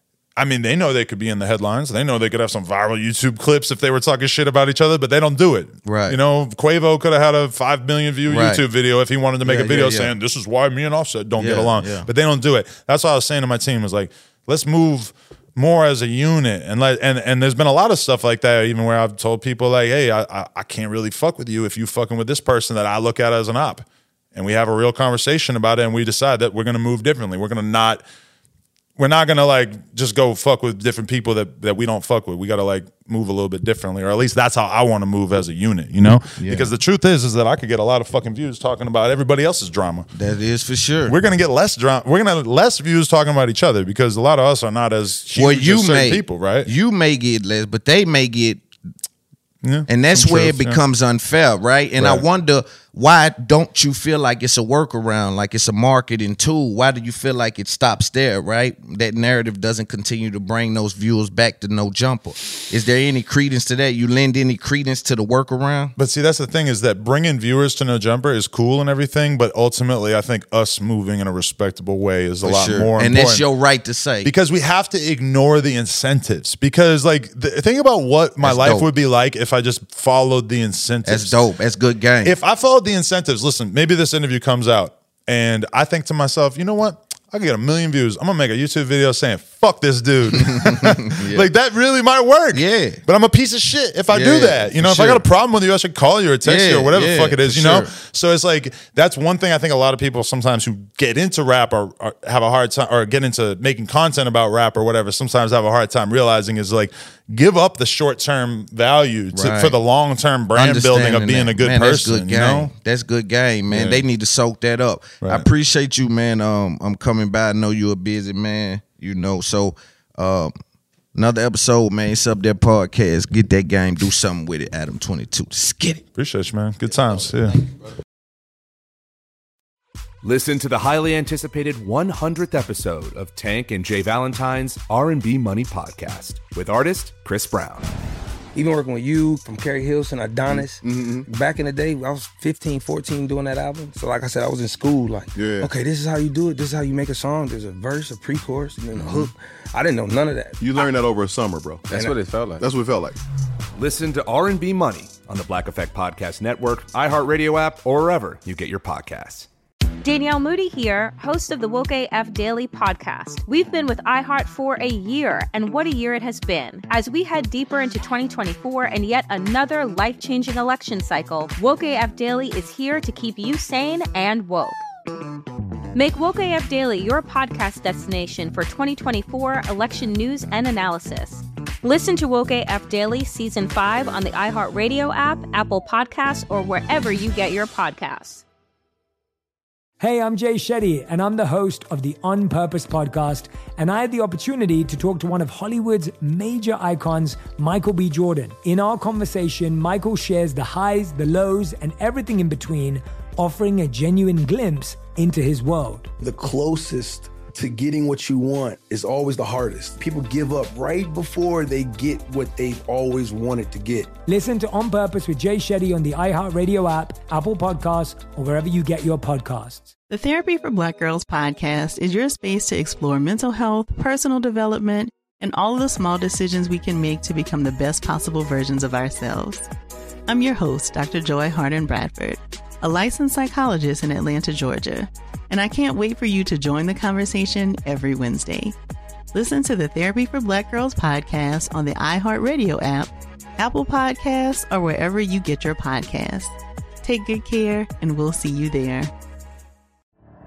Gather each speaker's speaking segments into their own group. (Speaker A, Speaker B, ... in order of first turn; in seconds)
Speaker A: 0.4-28.0, 29.0-40.1, 41.1-46.7, 49.6-50.8, 52.0-52.2, 66.0-73.4, 74.2-81.3, 82.2-112.7, 113.7-114.0, 126.2-127.7
Speaker B: 5.8-6.2, 8.3-8.6, 9.4-10.1, 11.4-12.1, 36.4-36.7, 40.1-41.2, 45.4-48.6, 49.9-66.0, 72.4-74.3, 78.4-78.9, 81.0-82.3, 90.4-91.5, 92.5-93.0, 94.1-95.2, 96.5-97.9, 109.3-109.8, 110.5-120.5, 121.2-126.0
Speaker C: 130.2-137.9, 153.8-159.5
Speaker D: 138.5-150.9, 151.9-152.2
Speaker E: 140.5-141.3, 145.3-145.7, 148.9-149.3, 150.6-153.2
Speaker F: 160.0-174.8, 175.9-188.4
Speaker G: 190.0-206.1, 214.3-219.9
Speaker H: 206.2-207.1, 211.2-212.2
Speaker I: 220.1-229.7, 230.3-238.8, 239.3-249.1